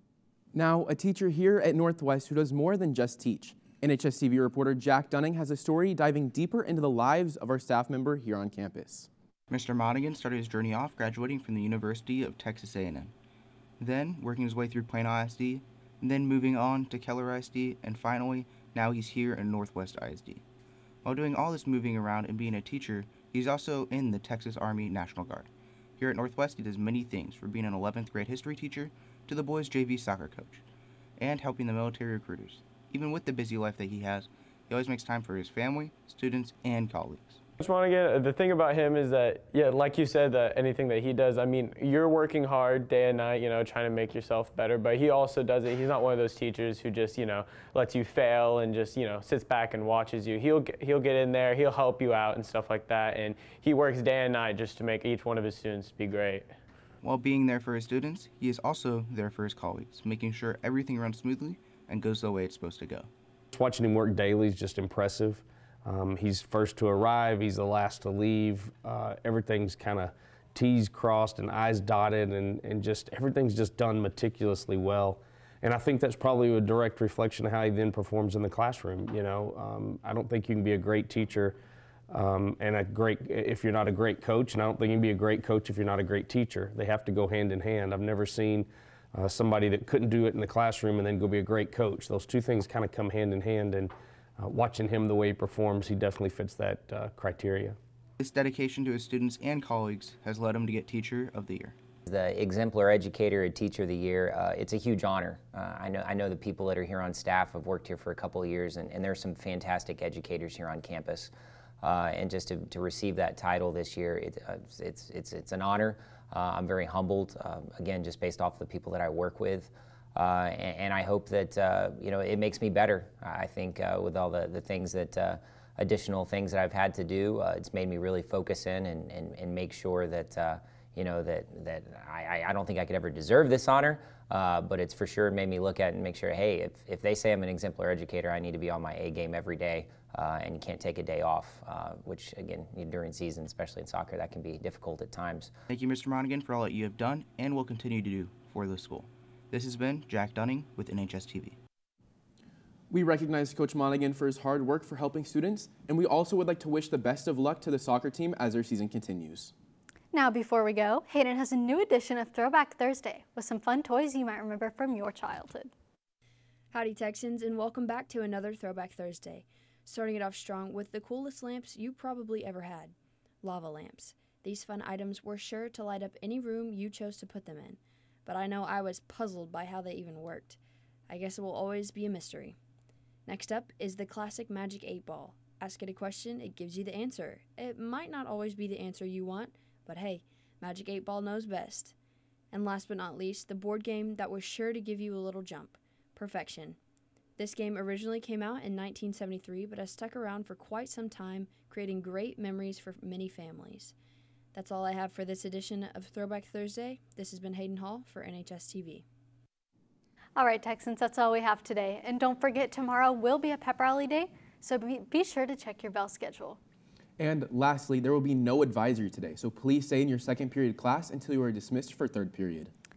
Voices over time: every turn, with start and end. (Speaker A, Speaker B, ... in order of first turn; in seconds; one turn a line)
Speaker A: 0.5-9.1
Speaker B: 9.5-13.1
Speaker B: 13.8-20.4
Speaker B: 21.0-30.6
Speaker B: 31.2-37.4
Speaker C: 37.6-56.5
Speaker B: 57.0-63.1
Speaker D: 63.5-81.6
Speaker D: 82.1-97.8
Speaker B: 98.2-101.8
Speaker E: 102.1-145.5
Speaker B: 145.7-151.6
Speaker A: 152.9-159.5
Speaker F: 160.1-165.7
Speaker G: 166.7-180.6
Speaker G: 181.1-182.6
Speaker G: 183.3-191.9
Speaker G: 192.5-196.8
Speaker G: 197.4-203.9
Speaker G: 204.5-209.0
Speaker F: 210.4-216.6
Speaker A: 217.2-222.7